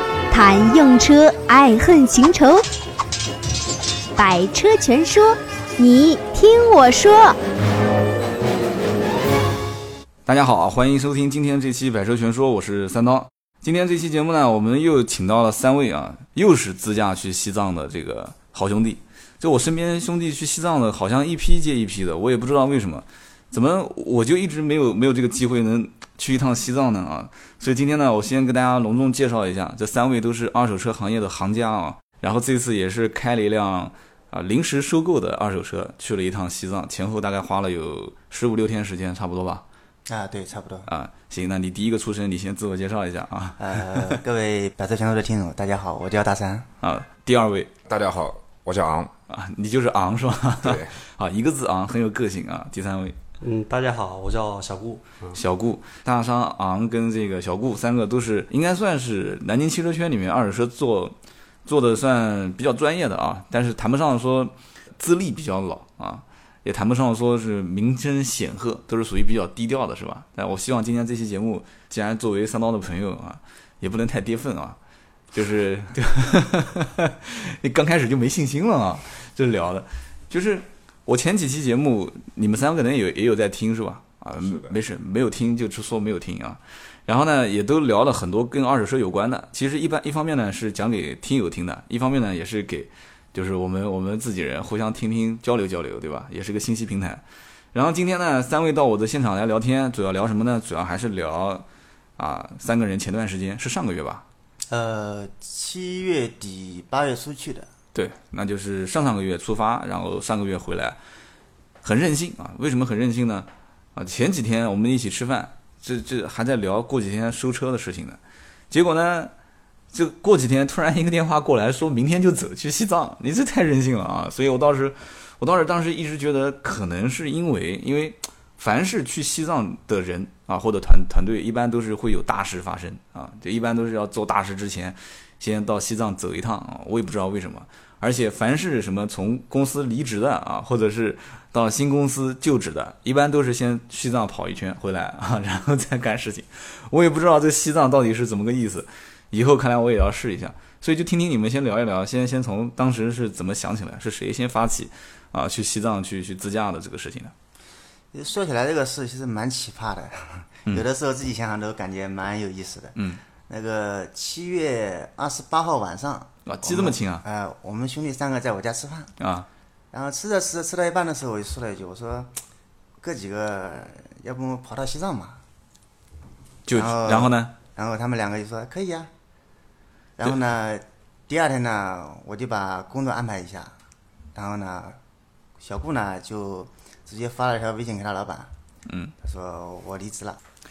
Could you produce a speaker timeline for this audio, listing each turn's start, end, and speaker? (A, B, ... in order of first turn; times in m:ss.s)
0:00.3-0:02.6 A
0:04.2-0:07.4 A
0:10.3-0:39.6 B
0:40.1-0:40.9 C
0:40.9-0:44.2 B
0:43.6-0:46.7 C
0:46.8-0:47.7 B
0:47.9-0:49.1 D
0:49.3-0:53.2 B
0:50.6-0:51.0 D
0:53.4-0:55.4 E
0:55.3-1:14.8 B
1:15.3-1:37.2 B
1:24.4-1:24.8 D
1:37.7-1:41.6 B
1:42.2-1:44.2 B
1:44.7-1:47.7 C
1:48.0-1:51.0 B
1:51.8-1:58.2 B
1:58.7-1:59.3 B
1:59.9-2:37.3 B
2:38.1-2:43.0 C
2:43.0-2:43.2 B
2:43.5-2:49.1 C
2:46.5-2:47.2 B
2:49.2-2:49.5 B
2:49.9-2:52.3 C
2:53.0-2:55.4 C
2:56.6-2:57.5 B
2:56.7-2:59.1 C
3:00.2-3:03.7 C
3:04.4-3:05.0 C
3:05.6-3:08.5 C
3:08.9-3:09.1 B
3:09.2-3:10.4 C